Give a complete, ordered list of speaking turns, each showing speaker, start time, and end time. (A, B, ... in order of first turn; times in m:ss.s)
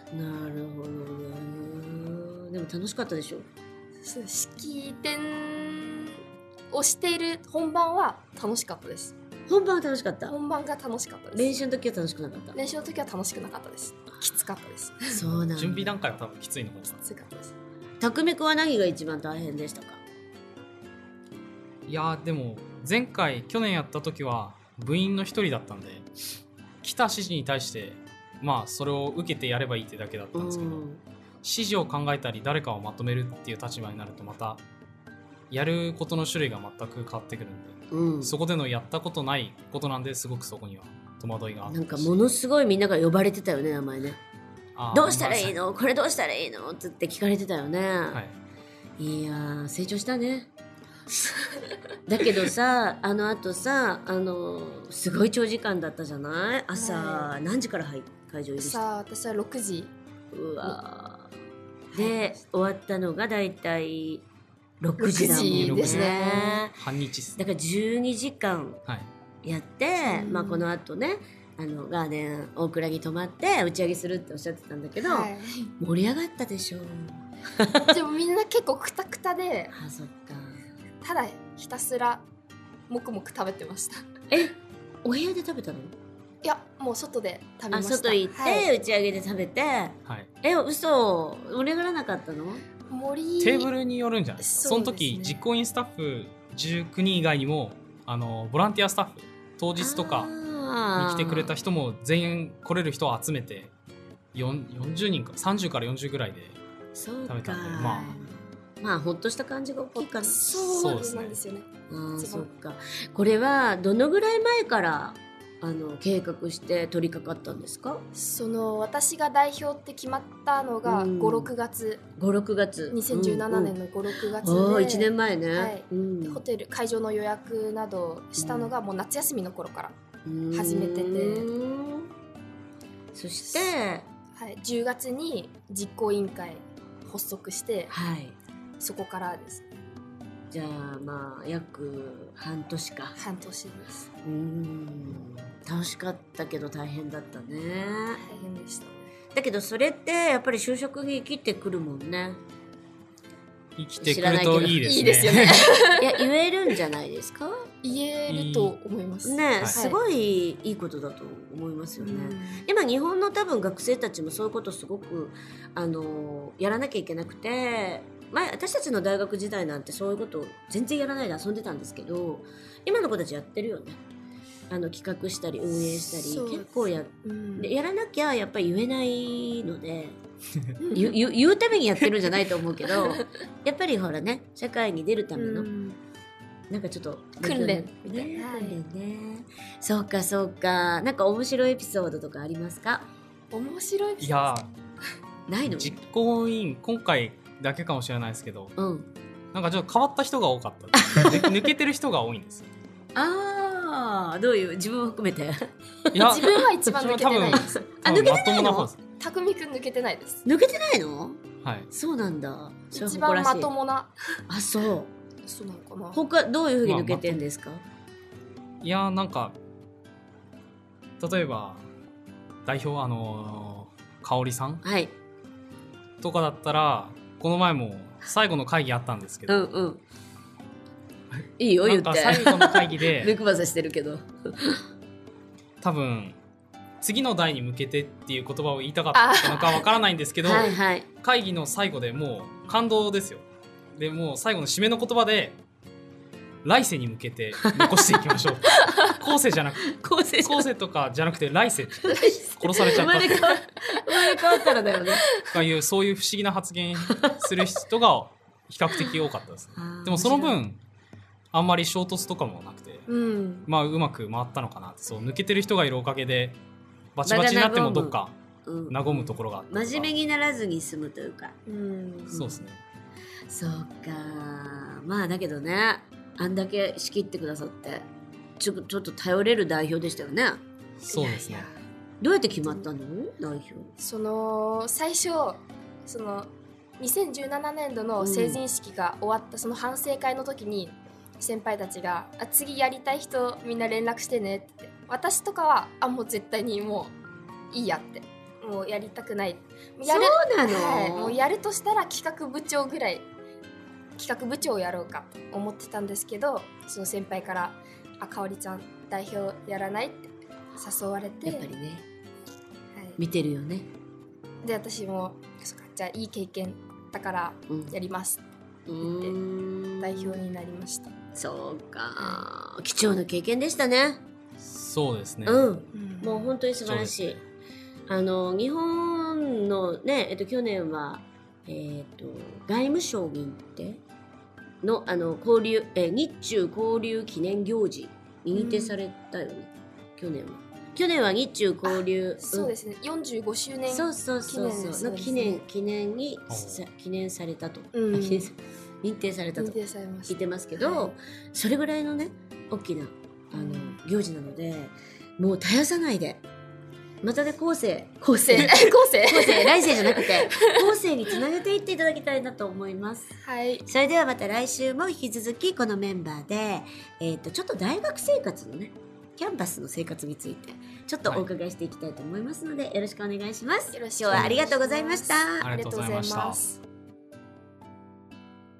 0:00.1-0:03.5 A
0:04.0-0:06.2 B
0:06.7-0:09.1 B
0:09.5-0:10.4 A
0:10.3-0:11.6 B
0:11.3-0:12.6 A
0:12.5-0:15.2 B
0:15.1-0:16.0 A
0:15.2-0:17.0 C
0:17.0-0:17.5 B
0:18.0-0:20.0 A
0:21.9-0:26.1 C
0:26.8-0:30.9 C
0:30.4-0:31.0 A
0:31.4-0:34.6 C
0:35.5-0:42.1 C
0:37.9-0:38.4 A
0:41.7-0:44.2 A
0:44.8-0:45.6 C
0:44.9-0:48.2 A
0:48.1-0:48.4 C
0:49.0-0:50.5 A
0:52.1-0:58.8 A
0:56.8-0:57.4 B
0:58.6-0:59.9 B
1:00.3-1:01.3 A
1:01.9-1:02.4 B
1:01.9-1:04.2 A
1:04.8-1:06.8 A
1:05.0-1:06.7 B
1:05.3-1:06.1 C
1:06.8-1:07.4 C
1:07.4-1:08.8 A
1:09.4-1:17.9 A
1:10.1-1:10.7 B
1:15.0-1:15.7 B
1:17.9-1:19.7 B
1:19.7-1:20.6 A
1:21.0-1:22.2 B
1:22.9-1:24.0 B
1:24.3-1:26.0 A
1:26.4-1:28.7 B
1:27.7-1:32.6 A
1:32.9-1:33.7 B
1:33.4-1:40.3 C
1:34.4-1:35.4 B
1:39.8-1:41.5 A
1:41.0-1:43.7 C
1:44.3-1:46.6 C
1:47.0-1:50.7 A
1:47.3-1:48.1 C
1:47.8-1:48.2 B
1:50.0-1:52.5 B
1:50.6-1:51.4 C
1:51.9-1:58.0 A
1:58.1-2:02.0 B
2:00.8-2:01.5 A
2:02.2-2:03.8 A
2:02.9-2:10.0 B
2:04.4-2:06.4 A
2:08.4-2:08.7 A
2:10.3-2:12.1 A
2:10.5-2:11.5 B
2:13.1-2:14.1 A
2:14.3-2:17.9 B
2:17.9-2:18.4 A
2:18.8-2:19.6 B
2:20.5-2:23.2 A
2:23.2-2:24.1 B
2:24.2-2:28.2 A
2:28.2-2:29.0 B
2:29.3-2:32.4 A
2:33.8-2:35.7 C
2:34.0-2:35.0 A
2:34.8-2:36.1 B
2:36.0-2:37.7 A
2:37.8-2:40.0 B
2:38.3-2:38.8 C
2:39.2-2:54.0 A
2:42.0-2:42.7 B
2:54.7-3:00.2 A
2:56.2-2:57.8 B
3:00.8-3:01.2 B
3:00.9-3:05.7 A
3:02.9-3:03.2 B
3:05.3-3:06.0 B
3:06.7-3:13.1 A
3:07.4-3:08.8 B
3:13.5-3:14.6 B
3:14.2-3:14.7 C
3:15.5-3:16.0 A
3:15.6-3:18.7 C
3:18.8-3:19.1 A
3:19.5-3:22.7 C
3:21.1-3:21.5 A
3:23.2-3:25.7 A
3:26.1-3:29.0 C
3:26.2-3:28.2 B
3:27.5-3:28.9 A
3:29.2-3:30.4 B
3:30.5-3:33.7 A
3:31.6-3:31.9 C
3:32.9-3:34.1 B
3:34.5-3:35.1 A
3:35.4-3:36.2 B
3:36.1-3:37.8 A
3:36.8-3:37.4 C
3:38.8-3:39.6 C
3:41.2-3:41.8 C
3:42.6-3:44.8 C
3:44.8-3:45.1 A
3:46.2-3:49.7 C
3:49.5-3:50.0 A
3:51.3-3:53.4 C
3:51.6-3:54.8 A
3:55.8-3:56.4 C
3:57.0-4:03.4 C
3:59.1-3:59.9 B
4:00.4-4:01.1 A
4:04.0-4:05.6 C
4:06.6-4:13.4 C
4:09.9-4:10.7 A
4:12.0-4:15.3 A
4:13.3-4:14.7 B
4:15.5-4:20.8 C
4:17.1-4:17.7 A
4:19.8-4:20.6 A
4:21.5-4:23.1 C
4:23.1-4:23.7 B
4:23.6-4:26.6 C
4:27.2-4:28.3 C
4:27.3-4:31.6 A
4:28.9-4:30.1 C
4:31.7-4:32.4 B
4:32.3-4:32.6 A
4:32.3-4:32.8 C
4:33.5-4:38.0 A
4:38.6-4:40.6 A
4:41.0-4:41.7 C
4:41.1-4:41.7 B
4:42.2-4:43.9 A
4:44.0-4:57.2 B
4:48.2-4:48.6 A
4:57.7-5:03.3 B
5:00.1-5:01.4 A
5:04.2-5:11.7 B
5:11.4-5:12.1 A
5:12.9-5:13.2 B
5:13.2-5:13.9 A
5:14.6-5:18.4 B
5:17.7-5:18.0 A
5:18.9-5:20.4 A
5:19.0-5:19.4 B
5:20.0-5:21.1 B
5:21.4-5:24.2 A
5:22.2-5:22.5 B
5:24.6-5:25.7 C
5:25.4-5:27.4 A
5:25.9-5:26.6 B
5:26.8-5:27.4 C
5:28.1-5:34.0 A
5:34.8-5:42.7 A
5:38.5-5:39.0 B
5:41.8-5:45.6 B
5:43.9-5:49.8 A
5:46.5-5:46.9 C
5:47.9-5:48.5 B
5:49.6-5:51.2 B
5:50.3-5:56.4 A
5:53.5-5:54.0 B
5:57.2-6:03.3 A
5:58.4-6:00.9 B
6:03.4-6:03.8 B
6:03.8-6:15.7 A
6:13.9-6:16.8 B
6:14.3-6:14.6 C
6:15.6-6:16.6 C